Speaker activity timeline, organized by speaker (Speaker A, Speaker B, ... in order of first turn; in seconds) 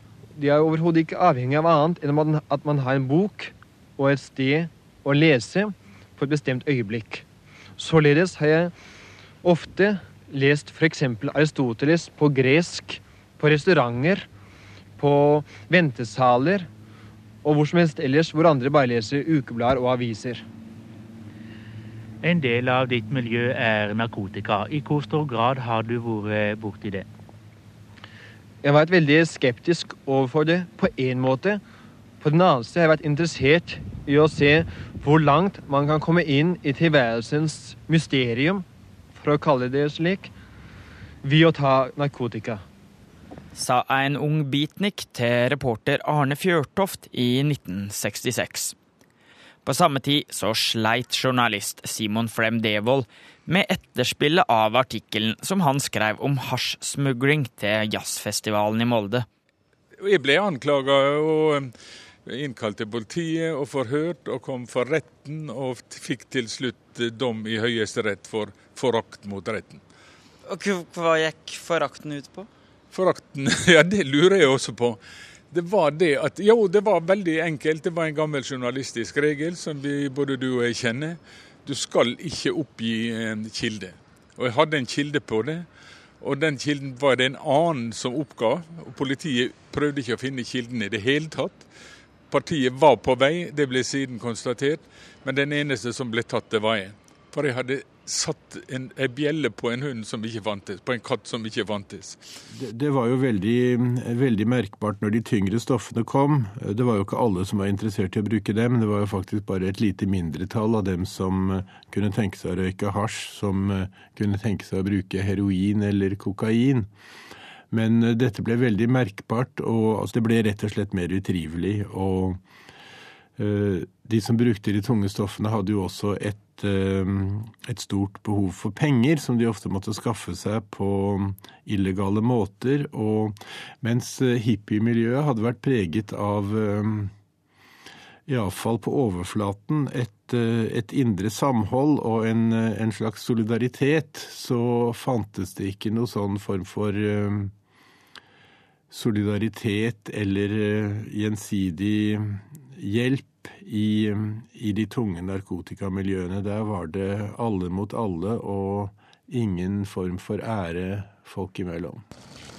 Speaker A: 0.3-7.2, 7.8-8.7, 9.4-14.2, 15.0-16.7, 17.4-20.4, 28.6-31.6, 32.2-38.6, 39.2-40.3, 41.2-42.6
Speaker B: 22.2-27.0
Speaker C: 43.5-48.7, 49.6-59.2, 70.5-72.5
Speaker D: 60.0-61.7, 62.2-69.8, 72.9-75.0, 75.5-85.7, 86.2-91.7, 92.3-102.2
Speaker E: 102.5-116.9, 117.7-122.4, 123.4-137.1, 138.3-147.5, 148.9-162.0